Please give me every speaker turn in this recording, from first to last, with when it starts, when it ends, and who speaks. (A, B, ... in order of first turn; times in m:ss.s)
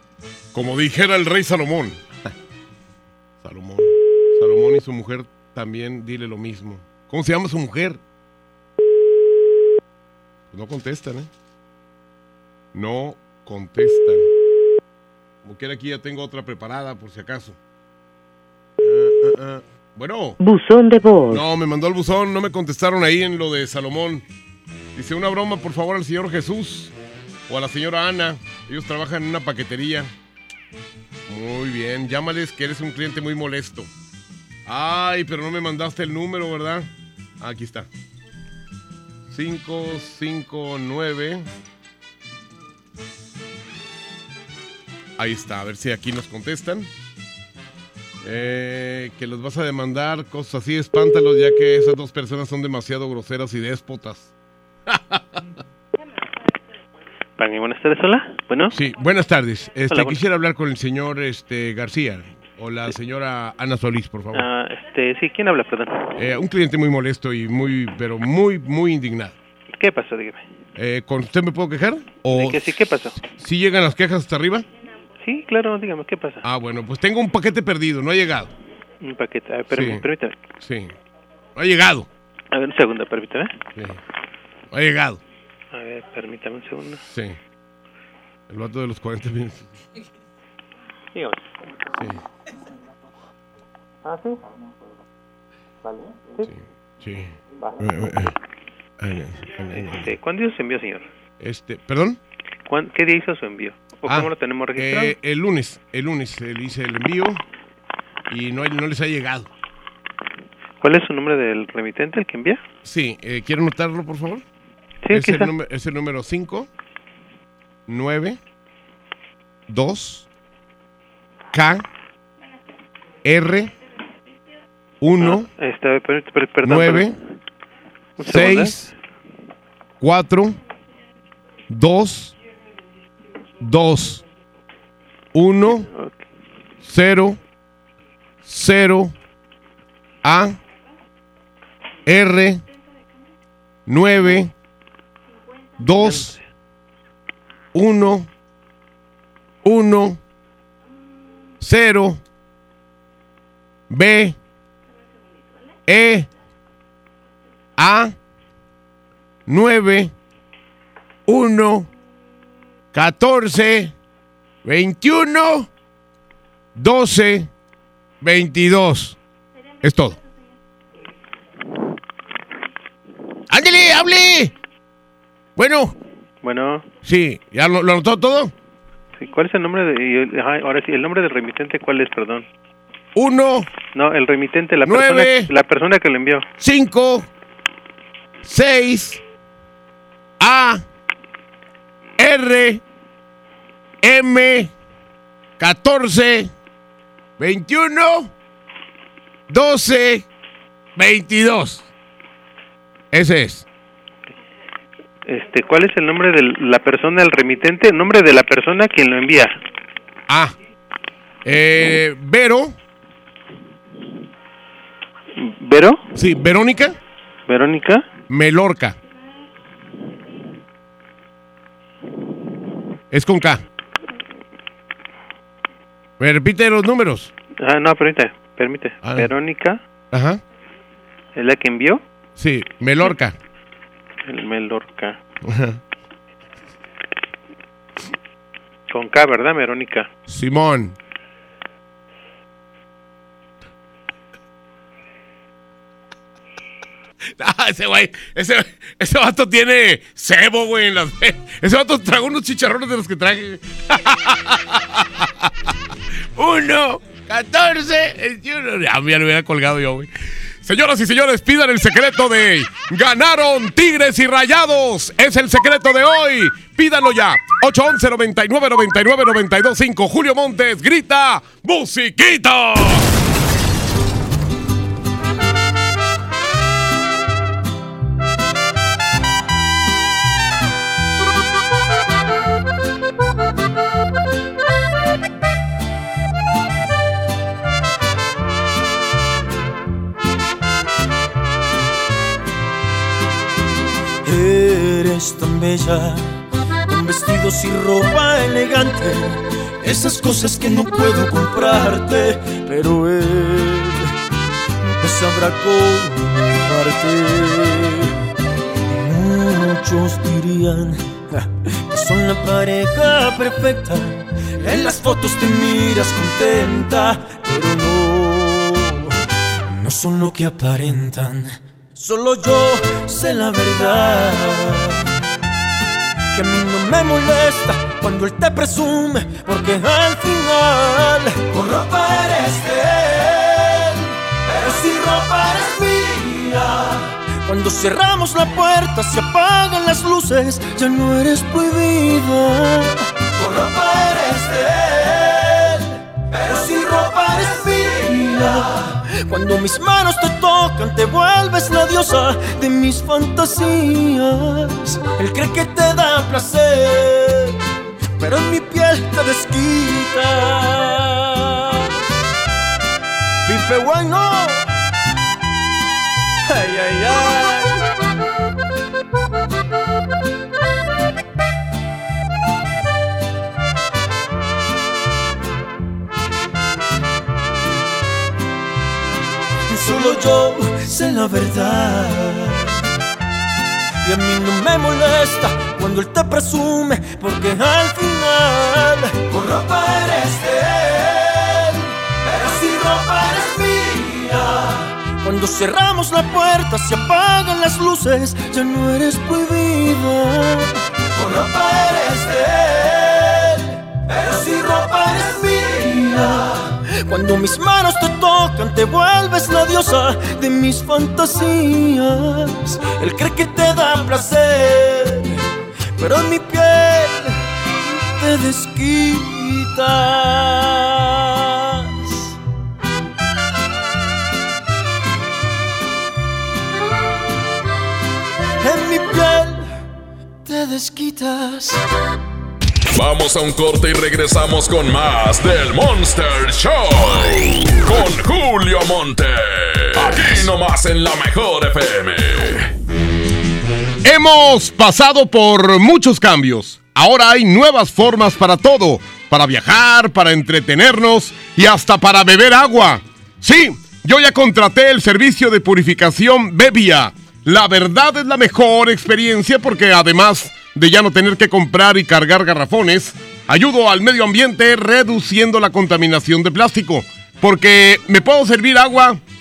0:00.5-0:02.3 A
0:03.4-0:08.0 A
0:10.5-0:11.3 A
0:12.7-0:14.3 A
0:15.4-0:17.6 A
0:18.8-0:20.4 A
0:21.3-0:24.2 A
0:25.0-0:26.9 A
0:27.5-0:30.1 A
0:31.3-0:33.9 A
0:34.7-0:36.9 A
0:37.4-0:37.9 A
0:39.3-0:41.5 A
0:45.2-0:46.9 A
0:48.2-0:54.3 A
0:54.9-0:55.2 A
0:57.4-0:58.8 B
0:58.7-1:04.5 A
0:59.9-1:00.2 B
1:04.3-1:06.0 B
1:06.2-1:09.4 A
1:09.8-1:10.4 B
1:10.8-1:12.8 A
1:12.3-1:13.2 B
1:13.4-1:14.7 A
1:15.2-1:16.4 B
1:16.4-1:18.5 A
1:19.0-1:20.4 B
1:19.7-1:20.1 A
1:20.6-1:20.9 A
1:21.6-1:22.1 A
1:22.5-1:23.5 B
1:24.7-1:25.2 A
1:25.7-1:27.0 B
1:27.1-1:27.4 A
1:28.5-1:29.7 A
1:36.4-1:38.3 A
1:39.0-1:40.1 A
1:39.9-1:41.0 B
1:41.4-1:42.2 A
1:42.7-1:45.2 B
1:44.1-1:47.4 A
1:48.3-1:49.5 A
1:50.8-1:52.6 B
1:52.9-1:54.4 A
1:55.0-1:55.5 B
1:55.1-1:56.7 A
1:57.9-1:58.4 A
1:59.7-2:00.2 A
2:01.5-2:01.8 A
2:03.2-2:03.7 A
2:05.0-2:05.5 A
2:05.2-2:07.1 B
2:06.6-2:07.2 A
2:08.2-2:08.9 B
2:08.3-2:08.9 A
2:10.0-2:10.6 A
2:11.7-2:12.3 A
2:13.6-2:14.2 A
2:15.3-2:15.9 A
2:15.8-2:16.1 B
2:16.8-2:17.4 A
2:18.5-2:19.1 A
2:20.2-2:20.6 A
2:22.1-2:22.6 A
2:23.9-2:24.5 A
2:25.8-2:26.3 A
2:26.0-2:26.4 B
2:27.7-2:28.3 A
2:29.6-2:30.2 A
2:31.6-2:32.2 A
2:33.9-2:34.4 A
2:35.9-2:36.3 A
2:37.8-2:38.1 A
2:39.5-2:40.1 A
2:41.3-2:41.9 A
2:42.9-2:43.9 A
2:44.6-2:45.7 A
2:46.8-2:47.5 A
2:48.2-2:49.2 A
2:49.8-2:50.2 A
2:53.5-2:54.5 A
2:55.6-2:55.9 A
2:56.4-2:56.8 B
2:57.1-2:58.5 A
2:59.2-3:02.4 B
3:03.2-3:03.7 A
3:04.0-3:06.4 B
3:04.8-3:05.5 A
3:06.6-3:07.3 A
3:08.5-3:09.2 A
3:10.4-3:10.8 A
3:12.2-3:12.8 A
3:14.0-3:14.7 A
3:15.6-3:16.5 A
3:17.4-3:18.3 A
3:19.5-3:20.2 A
3:21.0-3:21.8 A
3:23.1-3:23.6 A
3:25.3-3:29.5 B
3:30.3-3:30.5 A
3:31.4-3:32.7 A
3:35.4-3:36.0 B
3:36.2-3:37.0 A
3:37.5-3:38.0 B
3:38.3-3:39.0 A
3:43.1-3:43.6 A
3:46.2-3:47.3 A
3:47.6-3:49.8 B
3:49.0-3:49.3 A
3:50.1-3:50.4 A
3:51.4-3:52.0 B
3:52.4-3:53.3 A
3:54.3-3:55.2 B
3:55.5-3:55.8 A
3:58.9-4:00.1 B
4:00.3-4:01.0 A
4:07.4-4:15.2 A
4:16.4-4:20.1 A
4:20.6-4:33.0 A
4:54.2-5:04.1 C
5:05.0-5:08.2 C
5:08.8-5:19.1 C
5:19.7-5:25.0 C
5:26.3-5:57.6 C
5:58.2-6:01.9 C
6:03.5-6:04.7 C
6:06.5-6:07.8 C
6:19.7-6:22.7 C
6:24.0-6:55.4 C
6:56.0-7:02.3 C
7:08.6-7:09.7 C
7:10.4-7:11.8 C
7:12.9-7:22.7 D
7:24.0-7:49.2 A